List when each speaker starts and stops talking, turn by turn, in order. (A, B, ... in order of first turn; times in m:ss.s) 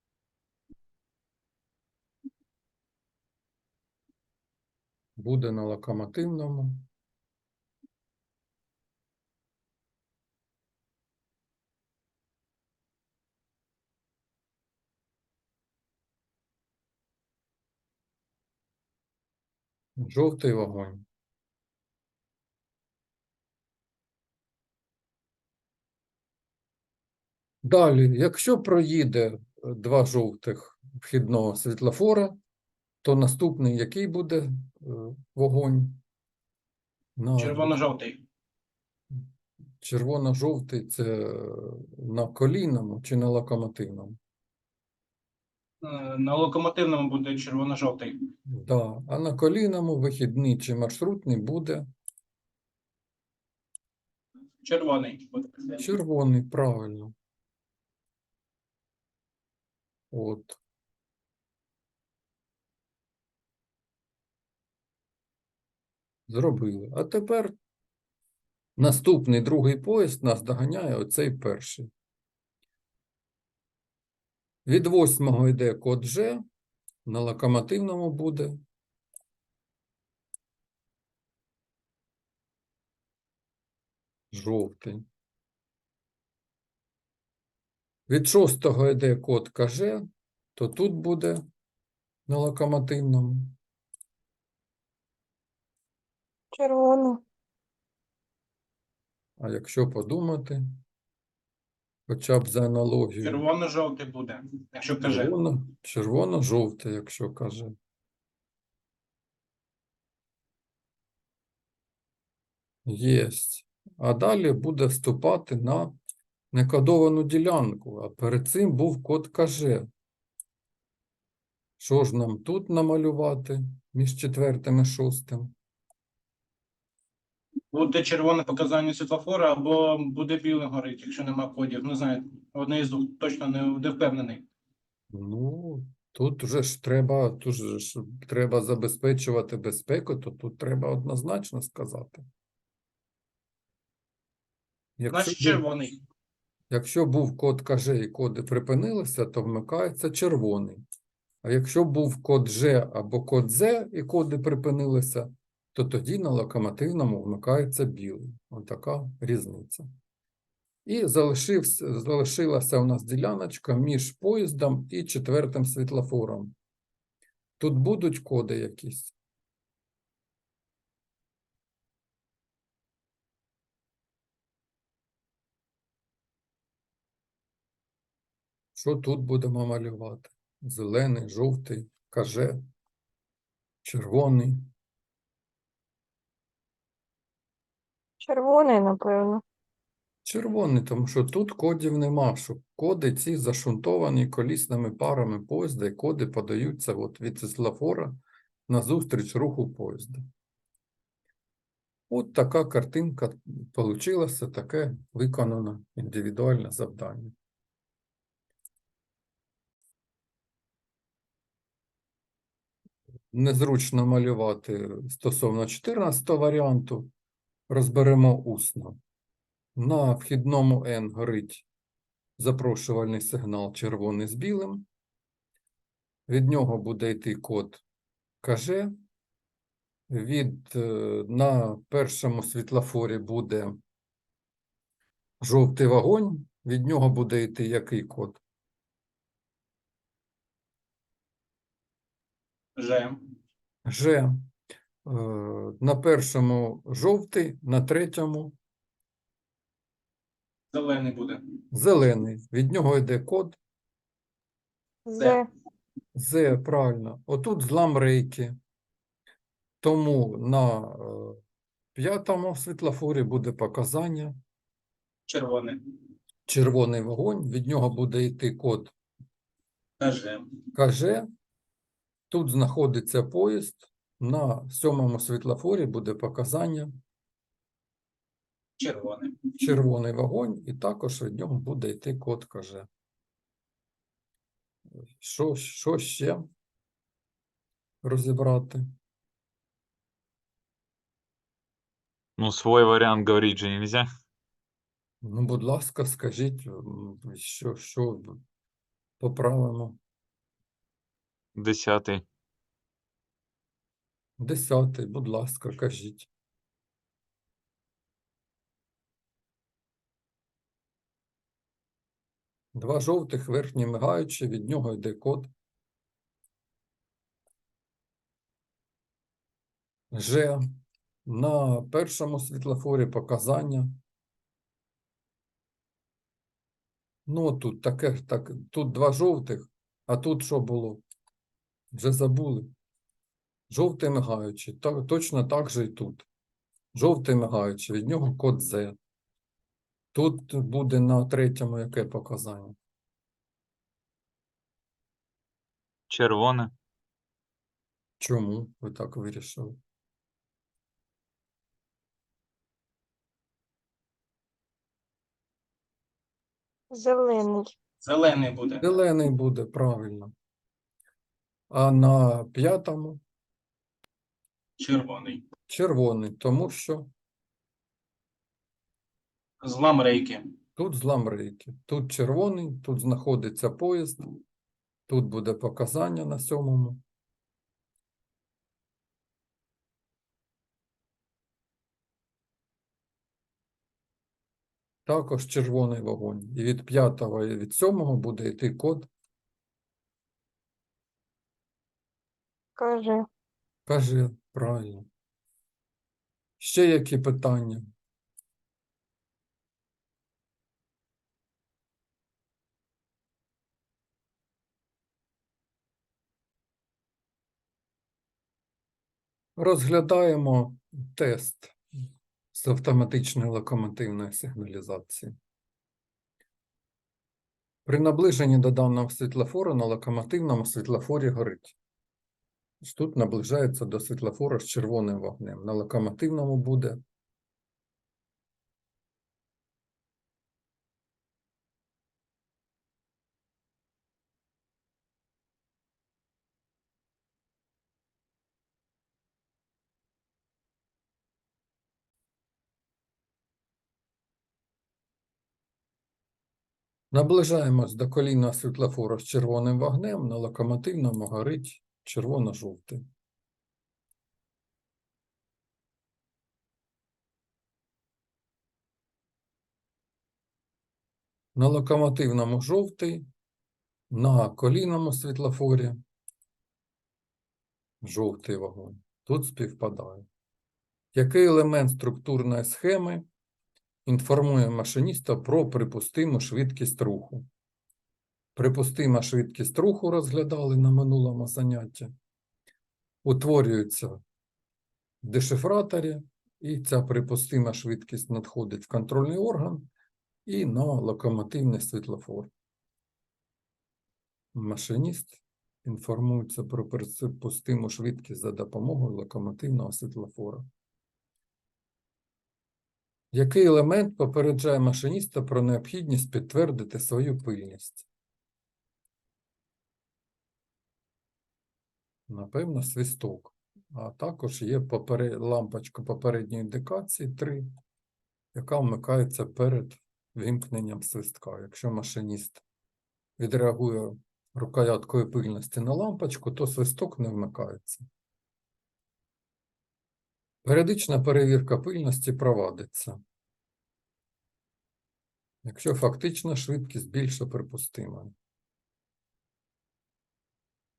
0:05.2-0:06.9 A
0:20.0-0:21.0 A
0:27.6-0:32.4 A
0:33.0-0:36.0 A
0:37.2-0:37.7 A
0:37.4-0:38.2 B
0:39.8-0:44.2 A
0:45.8-0:48.3 B
0:48.5-0:51.9 A
0:54.6-0:55.8 B
0:55.8-0:57.1 A
1:00.1-1:00.6 A
1:06.3-1:07.6 A
1:08.8-1:11.9 A
1:14.7-1:16.4 A
1:17.1-1:18.6 A
1:24.3-1:25.0 A
1:28.1-1:31.4 A
1:32.3-1:33.6 A
1:36.5-1:37.2 C
1:39.4-1:40.7 A
1:42.1-1:43.4 A
1:43.2-1:45.3 B
1:45.0-1:47.7 A
1:52.9-1:56.0 A
1:56.5-1:59.9 A
2:01.8-2:05.5 A
2:07.7-2:14.5 B
2:15.1-2:22.2 A
2:25.0-2:25.6 A
2:25.1-2:26.0 B
2:26.7-2:30.8 A
2:31.4-2:39.9 A
2:40.9-2:46.5 A
2:47.6-2:49.2 A
2:58.8-3:02.6 A
3:03.8-3:04.7 A
3:08.2-3:09.4 C
3:10.2-3:20.2 A
3:22.1-3:27.3 A
3:33.3-3:37.1 A
3:37.7-3:39.0 A
3:39.8-3:41.6 A
3:42.4-3:44.8 A
3:46.3-3:47.8 A
3:48.4-3:48.9 A
3:50.1-3:53.8 A
3:55.4-3:58.4 A
4:02.8-4:03.3 B
4:03.9-4:04.5 A
4:05.0-4:08.6 A
4:10.7-4:11.5 B
4:11.7-4:13.6 A
4:15.1-4:15.5 C
4:16.2-4:18.6 A
4:19.8-4:21.4 A
4:22.0-4:24.4 A
4:25.3-4:25.8 B
4:26.5-4:28.9 A
4:30.0-4:30.5 B
4:30.7-4:31.3 A
4:32.3-4:36.9 A
4:38.8-4:39.5 B
4:39.6-4:42.9 A
4:45.2-4:46.4 A
4:48.0-4:48.9 A
4:52.4-4:54.1 D
4:55.2-4:58.4 A
4:59.2-5:00.0 A
5:01.6-5:02.2 D
5:04.4-5:06.3 A
5:12.7-5:15.5 A
5:20.1-5:20.7 A
5:21.3-5:23.9 A
5:27.3-5:31.0 A
5:31.9-5:32.7 A
5:33.7-5:36.3 A
5:37.0-5:39.0 A
5:40.1-5:42.8 A
5:46.1-5:46.7 D
5:48.2-5:49.8 A
5:56.9-5:57.7 C
5:58.0-5:58.9 B
5:58.8-6:00.3 A
6:01.7-6:03.2 A
6:04.8-6:05.5 B
6:05.7-6:07.1 A
6:09.6-6:10.5 B
6:10.8-6:14.3 A
6:15.1-6:17.0 A
6:25.1-6:29.1 A
6:32.8-6:33.3 C
6:33.9-6:35.1 A
6:36.6-6:37.9 A
6:49.6-6:51.8 A
6:52.5-6:55.4 A
6:57.9-7:01.8 A
7:02.8-7:07.0 A
7:27.1-7:33.0 A
7:41.6-7:43.3 A
7:44.1-7:46.0 A
7:48.0-7:50.3 A
7:51.1-7:53.3 A
7:54.1-7:57.5 A
7:58.6-8:02.1 A
8:03.2-8:04.2 A
8:05.2-8:09.9 A
8:10.5-8:12.5 A
8:14.5-8:20.7 A
8:23.3-8:28.0 A
8:32.3-8:37.7 A
8:38.6-8:42.6 A
8:43.4-8:48.1 A
8:50.6-8:53.2 A
8:55.6-8:58.3 A